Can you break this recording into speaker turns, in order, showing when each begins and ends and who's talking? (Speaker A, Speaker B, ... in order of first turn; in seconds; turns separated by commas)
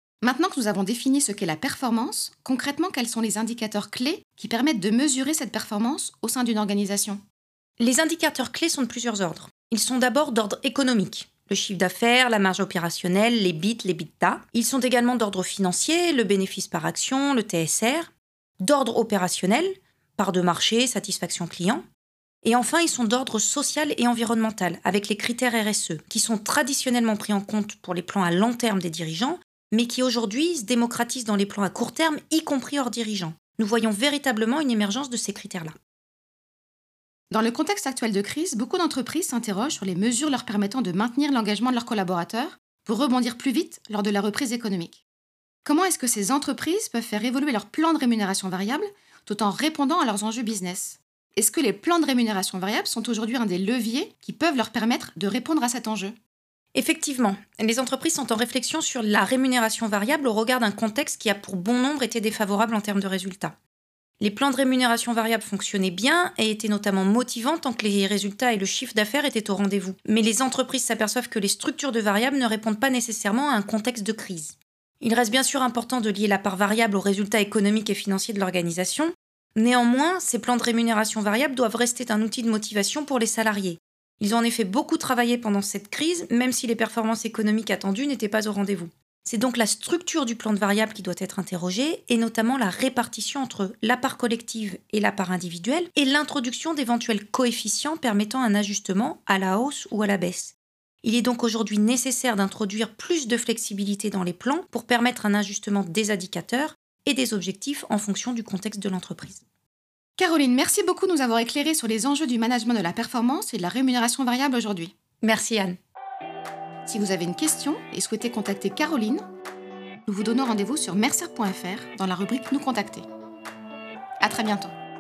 Speaker A: 0.2-7.2, Speaker B: 7.8-21.8, Speaker B: 22.4-35.7, Speaker A: 37.3-45.0, Speaker A: 45.6-56.1, Speaker B: 56.7-63.5, Speaker B: 64.2-109.4, Speaker A: 110.2-114.9, Speaker B: 115.2-115.8, Speaker A: 116.8-119.2, Speaker A: 120.0-123.1, Speaker A: 124.2-124.7